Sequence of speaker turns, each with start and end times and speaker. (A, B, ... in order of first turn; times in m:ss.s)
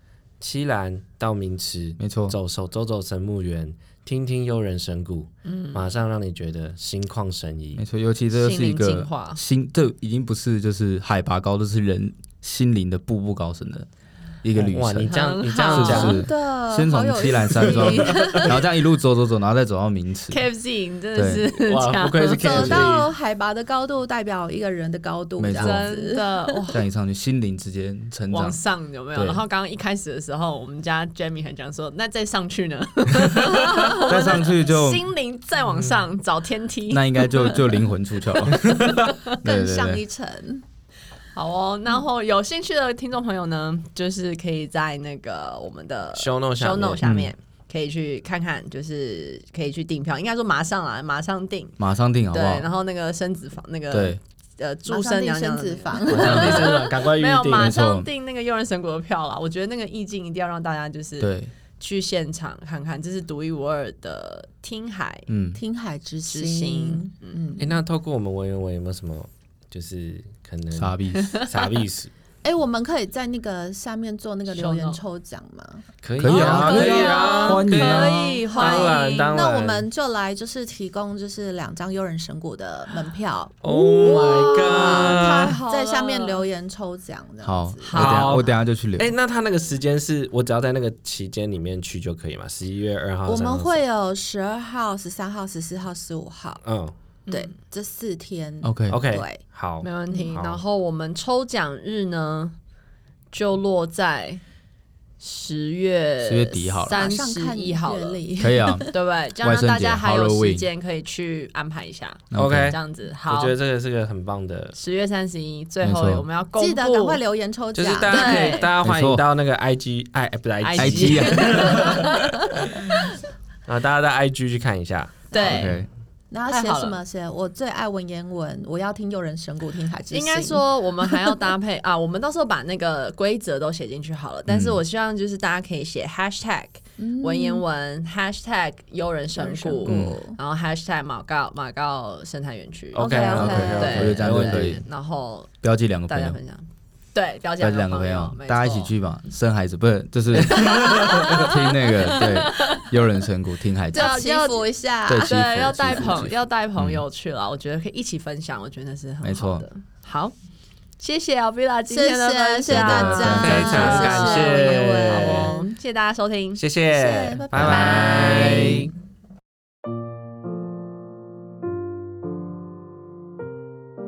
0:00.4-0:07.8 A
0:02.0-0:02.4 B
0:05.4-0:05.9 C
0:07.8-0:13.9 B
0:08.3-0:09.4 C
0:14.4-0:15.1 B
0:14.6-0:16.2 A
0:15.0-0:16.2 C
0:15.7-0:20.4 B
0:15.9-0:18.6 D
0:17.4-0:18.6 A
0:20.3-0:22.9 C
0:21.1-0:21.4 B
0:21.6-0:23.1 A
0:22.4-0:26.7 D
0:25.4-0:25.8 B
0:25.6-0:26.8 C
0:26.7-0:28.6 B
0:28.3-0:37.8 C
0:29.1-0:29.4 B
0:34.0-0:35.1 B
0:35.7-0:36.0 A
0:36.9-0:40.0 B
0:38.7-0:39.2 C
0:39.4-0:40.6 D
0:41.3-0:51.8 C
0:46.2-0:47.0 A
0:47.0-0:47.3 B
0:51.8-0:52.7 B
0:52.3-1:05.3 C
0:53.9-0:54.2 B
0:54.9-0:56.6 D
0:56.1-0:56.7 B
0:56.2-0:57.8 A
0:57.5-0:58.1 B
1:01.2-1:01.5 B
1:05.3-1:05.6 B
1:05.5-1:07.7 D
1:06.3-1:07.4 C
1:07.6-1:12.1 A
1:10.7-1:11.3 B
1:11.1-1:11.6 C
1:12.4-1:17.6 D
1:14.5-1:15.0 C
1:16.0-1:19.8 A
1:16.2-1:18.4 B
1:16.3-1:19.4 C
1:18.5-1:27.9 D
1:23.6-1:25.6 A
1:23.7-1:26.4 C
1:27.4-1:29.1 B
1:27.8-1:28.4 C
1:27.9-1:33.8 A
1:33.3-1:36.6 D
1:36.6-1:36.9 A
1:37.3-1:37.5 C
1:37.3-1:39.4 D
1:38.6-1:39.0 B
1:38.9-1:40.6 A
1:39.8-1:42.6 C
1:43.3-1:44.4 C
1:45.2-1:48.2 C
1:46.2-1:47.1 B
1:46.9-1:48.9 D
1:48.4-1:50.7 B
1:48.9-1:53.6 C
1:52.3-1:52.8 B
1:52.3-1:54.8 A
1:54.7-1:57.2 C
1:55.8-1:56.2 B
1:56.6-1:58.5 D
1:57.7-2:02.0 A
1:58.0-1:58.7 C
1:58.8-1:59.2 B
2:00.6-2:02.6 C
2:00.8-2:02.1 B
2:02.6-2:03.1 A
2:03.7-2:05.3 A
2:05.3-2:05.8 C
2:05.3-2:05.7 D
2:05.4-2:05.9 B
2:06.3-2:11.3 D
2:06.5-2:07.0 C
2:10.1-2:25.5 C
2:14.5-2:14.8 B
2:17.0-2:17.6 D
2:19.4-2:20.4 D
2:19.9-2:20.2 B
2:22.9-2:24.8 A
2:23.0-2:24.1 D
2:23.3-2:24.8 B
2:25.6-2:26.4 B
2:26.1-2:28.9 C
2:27.6-2:34.2 B
2:30.6-2:32.9 C
2:33.9-2:36.2 D
2:33.9-2:40.3 C
2:35.1-2:37.0 B
2:39.2-2:39.7 B
2:41.0-2:46.6 C
2:41.9-2:45.7 D
2:42.6-2:44.0 B
2:43.4-2:45.5 A
2:46.6-2:48.9 A
2:46.9-2:48.8 D
2:47.5-2:48.0 B
2:47.6-2:48.9 C